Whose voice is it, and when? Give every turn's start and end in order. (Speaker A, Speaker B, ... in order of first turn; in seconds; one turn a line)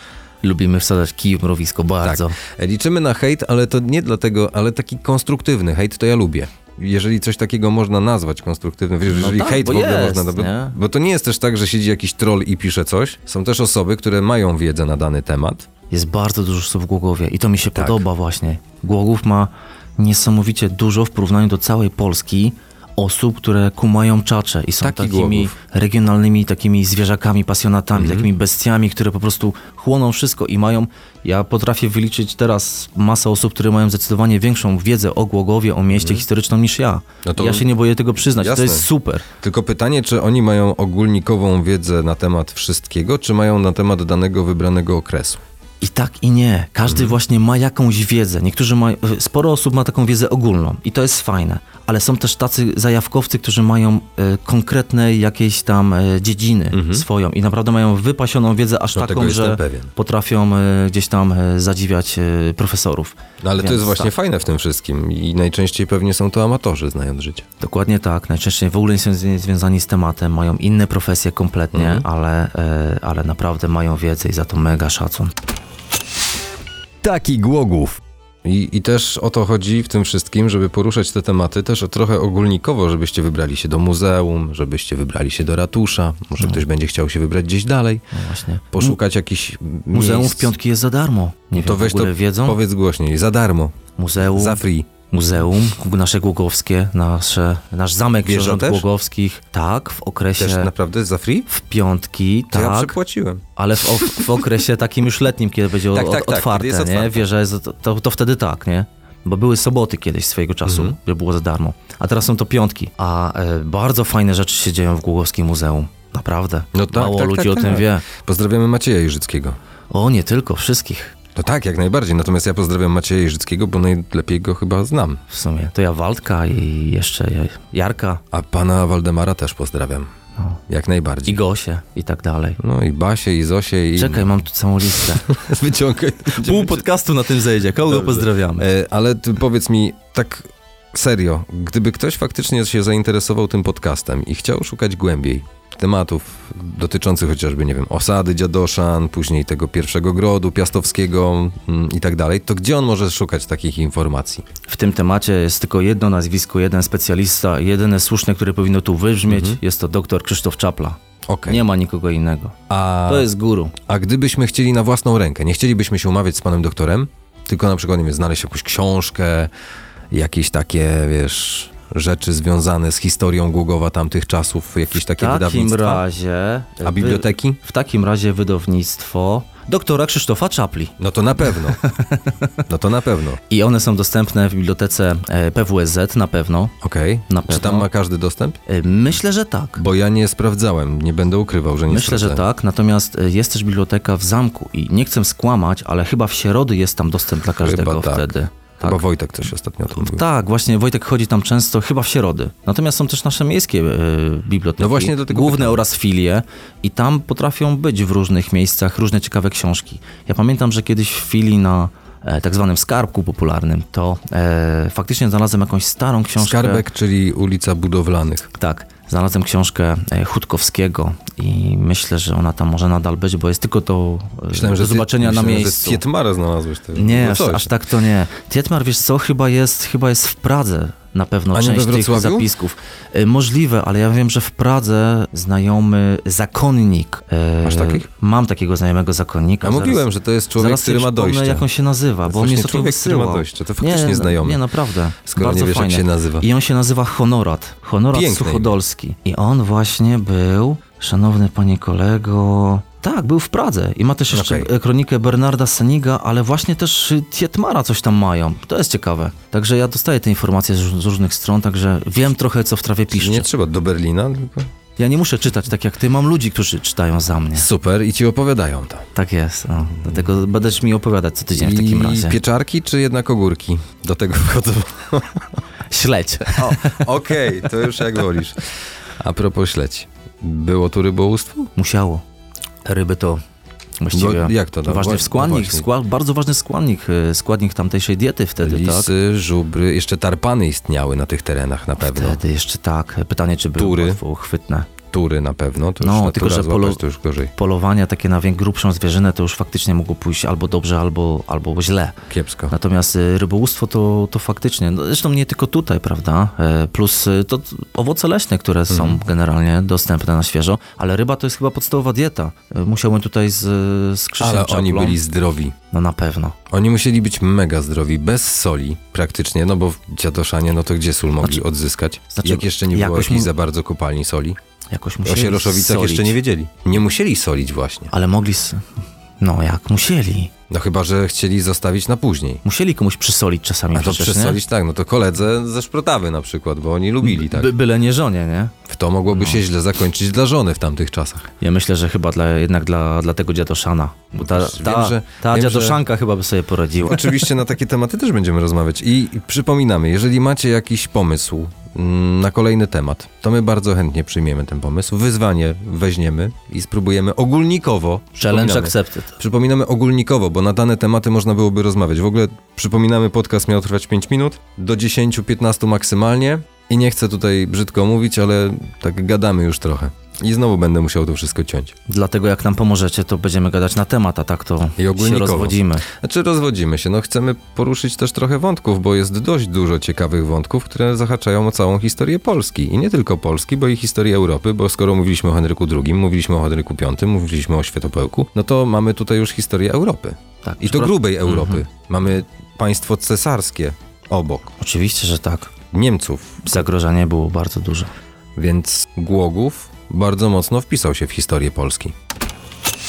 Speaker A: 0.4-2.4
Speaker B: 2.0-15.7
Speaker A: 9.1-10.8
Speaker A: 15.9-39.2
Speaker B: 17.7-18.0
Speaker B: 24.8-25.5
Speaker B: 27.9-28.3
Speaker B: 35.9-36.2
Speaker B: 37.2-37.7
Speaker B: 38.2-38.9
Speaker B: 39.4-45.4
Speaker A: 45.8-64.1
Speaker B: 46.9-47.2
Speaker B: 56.7-57.1
Speaker B: 58.9-59.9
Speaker B: 63.4-67.4
Speaker A: 67.6-75.3
Speaker B: 71.7-72.0
Speaker B: 77.0-88.0
Speaker A: 88.1-88.9
Speaker B: 88.7-90.5
Speaker A: 89.9-92.6
Speaker B: 91.6-93.8
Speaker A: 94.0-100.7
Speaker B: 94.3-94.9
Speaker B: 98.2-98.8
Speaker B: 100.4-101.5
Speaker A: 101.5-103.0
Speaker B: 102.5-104.4
Speaker A: 103.6-118.1
Speaker B: 105.9-107.2
Speaker B: 110.7-111.0
Speaker B: 116.7-119.6
Speaker A: 119.9-121.1
Speaker B: 121.4-125.2
Speaker A: 125.3-128.2
Speaker B: 128.3-130.1
Speaker B: 130.7-131.4
Speaker A: 131.3-132.6
Speaker B: 132.6-134.3
Speaker A: 133.9-135.3
Speaker B: 135.0-136.9
Speaker A: 136.3-138.6
Speaker B: 137.9-154.4
Speaker A: 154.7-163.8
Speaker B: 159.2-159.6
Speaker B: 161.3-161.6
Speaker B: 162.7-163.3
Speaker B: 163.9-169.5
Speaker B: 170.1-176.1
Speaker A: 174.9-182.6
Speaker B: 176.8-177.6
Speaker B: 181.0-181.8
Speaker B: 182.7-183.4
Speaker A: 183.5-186.7
Speaker B: 186.8-188.6
Speaker A: 187.3-187.9
Speaker A: 188.7-189.8
Speaker B: 189.8-192.4
Speaker A: 191.9-199.0
Speaker B: 197.5-200.2
Speaker A: 199.9-216.8
Speaker B: 204.8-205.8
Speaker B: 216.4-218.5
Speaker A: 218.6-226.0
Speaker B: 224.5-227.7
Speaker A: 226.9-263.5
Speaker B: 231.5-232.5
Speaker B: 237.6-238.1
Speaker B: 239.6-241.7
Speaker B: 242.3-244.6
Speaker B: 245.2-246.5
Speaker B: 248.1-248.8
Speaker B: 254.3-254.7
Speaker B: 263.1-264.7
Speaker A: 265.0-267.7
Speaker B: 267.6-269.1
Speaker A: 269.1-272.4
Speaker B: 271.6-275.5
Speaker A: 275.9-277.1
Speaker B: 276.6-281.7
Speaker A: 281.8-282.2
Speaker A: 282.9-283.4
Speaker A: 284.0-289.1
Speaker B: 284.1-285.9
Speaker B: 288.6-292.4
Speaker A: 292.0-294.9
Speaker B: 293.8-294.2
Speaker B: 295.1-297.5
Speaker A: 296.0-297.0
Speaker A: 297.5-302.2
Speaker B: 302.3-302.8
Speaker A: 302.7-315.2
Speaker B: 308.9-309.2
Speaker B: 314.4-315.8
Speaker A: 315.9-316.6
Speaker B: 316.7-324.6
Speaker A: 322.3-323.5
Speaker A: 324.9-326.4
Speaker B: 325.2-328.1
Speaker A: 328.1-328.8
Speaker A: 329.4-330.5
Speaker B: 330.7-332.6
Speaker A: 332.6-334.6
Speaker B: 333.9-337.7
Speaker A: 337.2-338.8
Speaker B: 338.9-341.5
Speaker A: 339.3-339.6
Speaker A: 341.6-347.3
Speaker B: 344.4-346.0
Speaker B: 347.0-371.9
Speaker A: 358.4-359.3
Speaker A: 372.1-376.1
Speaker B: 375.0-394.7
Speaker A: 390.6-391.8
Speaker A: 394.8-395.7
Speaker B: 395.9-396.8
Speaker A: 396.6-398.1
Speaker B: 398.6-402.1